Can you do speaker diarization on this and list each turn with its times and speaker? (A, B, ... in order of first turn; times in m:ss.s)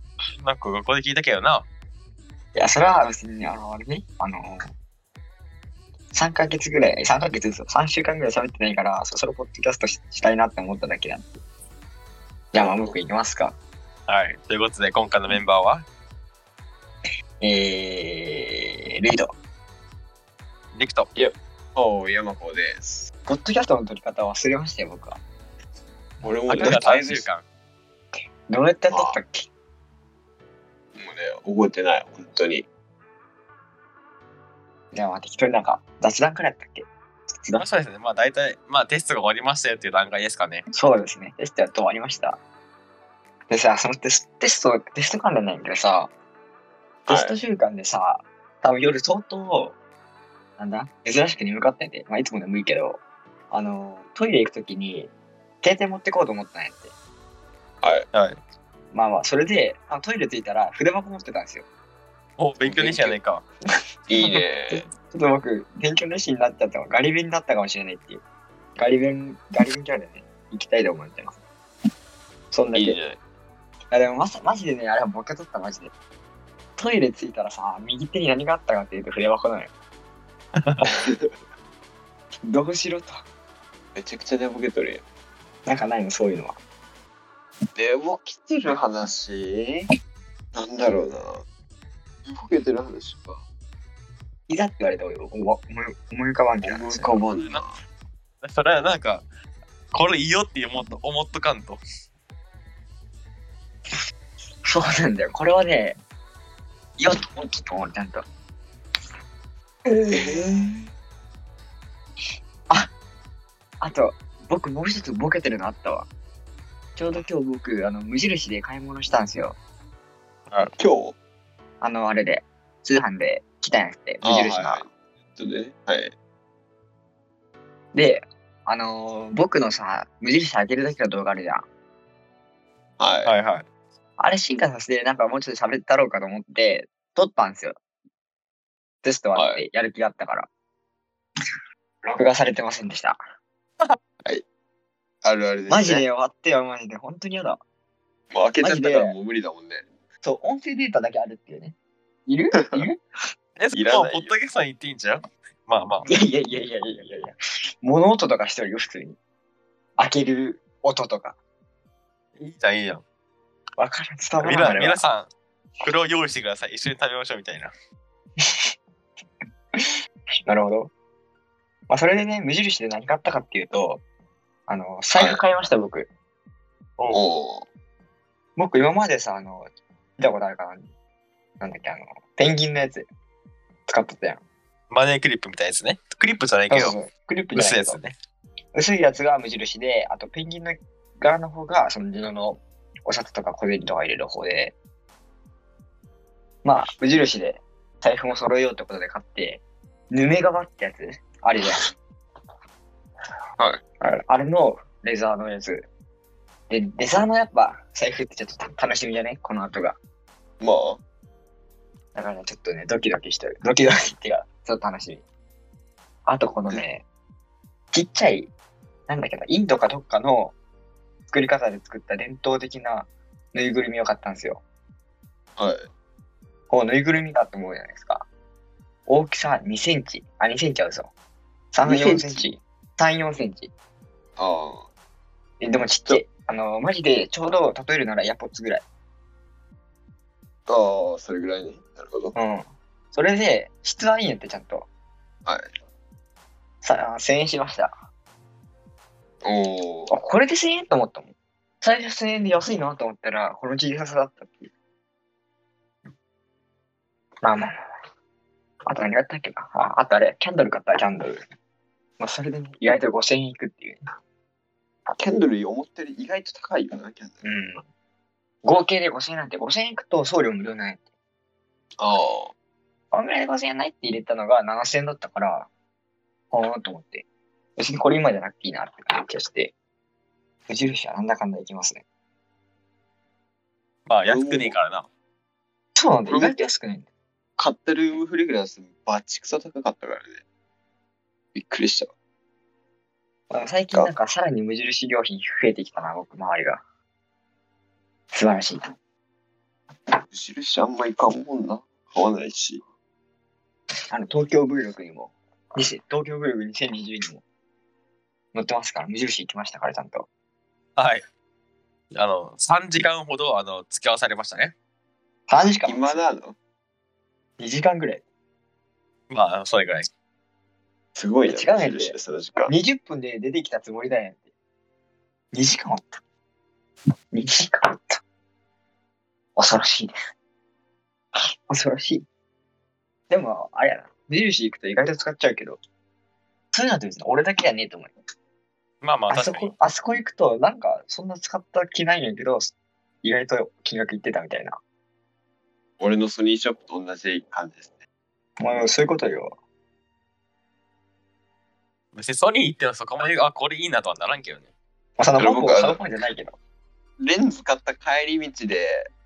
0:00.4-0:01.6 A
0:02.5-0:04.7 B
0:06.1-0:11.3 B
0:12.5-0:13.6 B
0:12.6-0:13.0 C
0:14.1-0:15.8 A
0:17.4-0:19.3 B
0:20.7-0:21.1 A
0:21.2-0:23.1 C
0:23.3-0:25.2 B
0:26.2-0:27.2 C
0:26.5-0:27.4 A
0:28.5-0:29.5 B
0:28.9-0:29.2 C
0:31.0-0:32.7 C
0:34.9-0:37.6 B
0:37.6-0:40.7 A
0:40.7-0:42.4 B
0:43.5-0:46.1 B
0:47.1-0:47.4 C
0:47.1-0:49.8 B
0:50.6-0:55.1 B
0:55.6-0:56.9 B
0:58.1-0:58.4 A
0:58.9-1:01.6 B
1:02.4-1:03.4 A
1:02.6-1:03.2 C
1:04.1-1:04.9 C
1:04.2-1:08.2 B
1:08.8-1:11.4 B
1:12.5-1:13.0 B
1:12.8-1:13.2 C
1:13.9-1:15.9 B
1:16.8-1:19.7 B
1:20.6-1:20.9 A
1:20.9-1:21.3 C
1:22.4-1:23.2 B
1:23.9-1:25.0 C
1:25.7-1:26.6 B
1:27.8-1:29.8 C
1:30.5-1:31.4 C
1:32.2-1:33.4 C
1:34.5-1:37.2 B
1:36.6-1:37.8 C
1:38.4-1:39.2 A
1:39.9-1:41.8 A
1:44.6-1:46.0 B
1:47.0-1:48.2 B
1:49.9-1:50.9 B
1:50.1-1:50.5 C
1:53.8-1:56.1 B
1:57.0-1:59.6 B
2:00.8-2:01.2 C
2:01.8-2:04.8 B
2:04.2-2:06.1 C
2:07.9-2:11.6 B
2:13.0-2:13.3 C
2:13.2-2:13.6 A
2:14.2-2:17.8 B
2:19.0-2:20.5 B
2:19.3-2:19.6 C
2:22.1-2:23.2 B
2:25.2-2:26.0 C
2:25.7-2:27.6 B
2:28.3-2:29.9 C
2:28.6-2:29.2 B
2:30.2-2:31.8 B
2:32.3-2:33.0 B
2:33.6-2:36.0 A
2:33.8-2:34.3 C
2:36.1-2:39.2 B
2:40.0-2:41.4 B
2:42.4-2:43.0 A
2:43.8-2:45.0 B
2:44.4-2:45.3 A
2:45.8-2:47.7 A
2:48.4-2:48.7 B
2:50.5-2:50.9 B
2:51.9-2:54.0 B
2:54.7-2:56.1 B
2:57.1-2:57.7 C
2:58.6-3:00.9 B
3:01.6-3:03.1 B
3:03.9-3:04.4 B
3:04.9-3:06.9 A
3:06.7-3:08.0 B
3:07.5-3:08.1 A
3:08.7-3:14.8 B
3:16.6-3:21.8 B
3:24.0-3:25.9 B
3:26.7-3:30.0 B
3:30.6-3:31.0 C
3:32.2-3:35.2 B
3:36.2-3:37.0 B
3:37.9-3:38.5 B
3:39.1-3:40.6 B
3:41.3-3:44.6 B
3:45.6-3:45.8 C
3:46.7-3:48.3 B
3:49.1-3:51.1 B
3:51.7-3:53.7 B
3:51.8-3:52.4 C
3:54.4-3:54.9 C
3:55.6-3:58.8 B
4:00.7-4:02.4 C
4:02.4-4:04.9 B
4:06.8-4:07.9 B
4:09.4-4:10.1 C
4:10.1-4:14.7 B
4:18.8-4:21.4 B
4:22.2-4:24.1 B
4:25.1-4:27.4 C
4:27.4-4:27.8 B
4:28.6-4:31.0 B
4:32.0-4:32.5 C
4:33.1-4:35.7 B
4:36.5-4:37.2 B
4:37.8-4:39.7 B
4:40.7-4:42.0 B
4:44.1-4:45.1 A
4:44.2-4:44.8 C
4:46.0-4:47.1 B
4:46.3-4:46.6 C
4:47.6-4:50.4 C
4:51.5-4:52.1 C
4:53.5-4:56.8 B
4:58.3-4:58.9 B
5:00.3-5:02.8 C
5:04.1-5:07.4 B
5:08.5-5:10.3 B
5:11.0-5:11.2 A
5:12.1-5:14.7 A
5:15.5-5:16.2 B
5:15.9-5:16.6 C
5:17.6-5:18.2 B
5:19.3-5:20.1 A
5:21.1-5:22.7 C
5:21.5-5:22.2 B
5:22.7-5:24.4 B
5:25.5-5:26.2 B
5:27.3-5:28.2 B
5:29.6-5:30.1 B
5:31.4-5:32.2 B
5:33.3-5:35.8 B
5:36.7-5:38.1 B
5:39.0-5:39.7 A
5:39.3-5:44.8 B
5:46.0-5:47.9 C
5:48.6-5:49.5 B
5:52.1-5:54.7 A
5:55.2-5:56.6 B
5:55.4-5:56.0 C
5:57.2-5:59.1 C